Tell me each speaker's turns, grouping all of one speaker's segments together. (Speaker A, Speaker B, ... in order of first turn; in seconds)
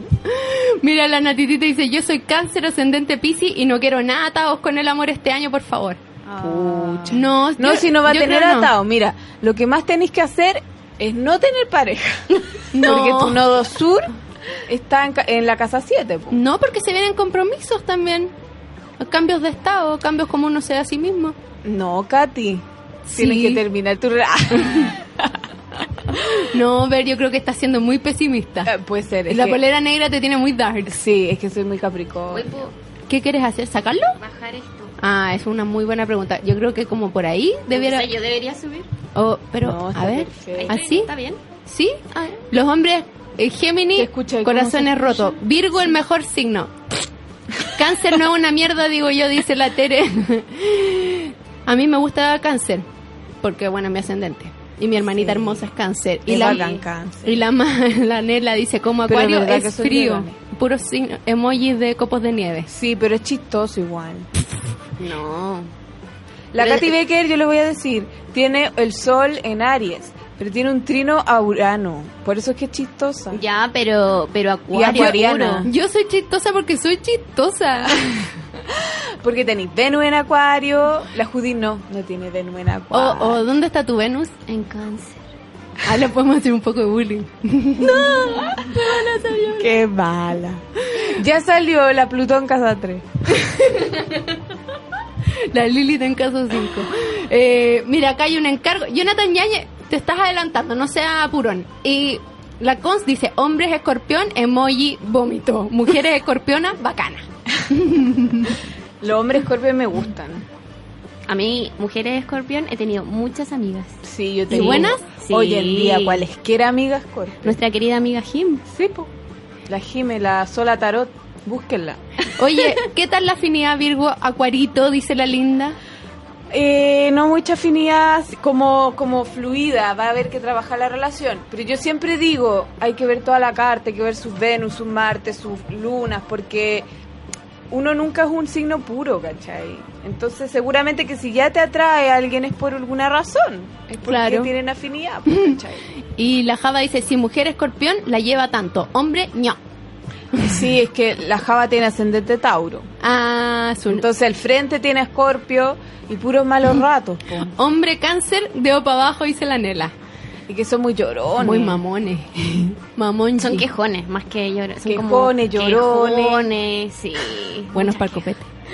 Speaker A: 0.2-6.0, 7.1-8.7, 12.7-13.4, 16.3-18.3, 19.0-21.4, 23.1-23.6, 26.2-28.7, 29.3-31.0, 33.1-34.2, 35.0-38.1, 39.1-41.1, 41.7-42.0, 42.5-46.7, 47.8-52.9, 53.4-56.6, 57.2-62.7, 74.9-78.2, 82.9-84.3, 85.8-88.6, 93.3-94.4, 95.3-108.6, 114.5-115.1, 122.4-125.8, 144.0-144.5, 146.1-149.6, 153.0-154.1, 157.6-159.9, 161.4-163.7, 167.7-168.5
Speaker B: 6.2-7.2, 32.3-32.7, 34.2-35.0, 37.7-38.9, 40.5-41.4, 42.1-42.4, 56.3-56.8, 65.0-65.7, 66.6-67.0, 73.3-75.7, 84.5-85.2, 87.8-89.8, 111.3-116.3, 117.4-118.6, 163.4-168.3
Speaker C: 6.4-14.1, 14.7-16.4, 21.6-25.3, 28.7-29.6, 30.9-32.6, 39.6-40.8, 44.0-45.4, 55.2-55.6, 56.3-57.4, 59.1-60.4, 62.7-64.3, 66.5-73.4, 74.7-75.7, 79.2-83.4, 88.0-88.8, 89.5-93.1, 109.0-110.5, 114.0-117.6, 118.7-119.1, 119.7-122.0, 126.5-136.9, 137.7-145.9, 150.4-152.9, 153.9-157.5, 160.5-161.8, 164.8-166.5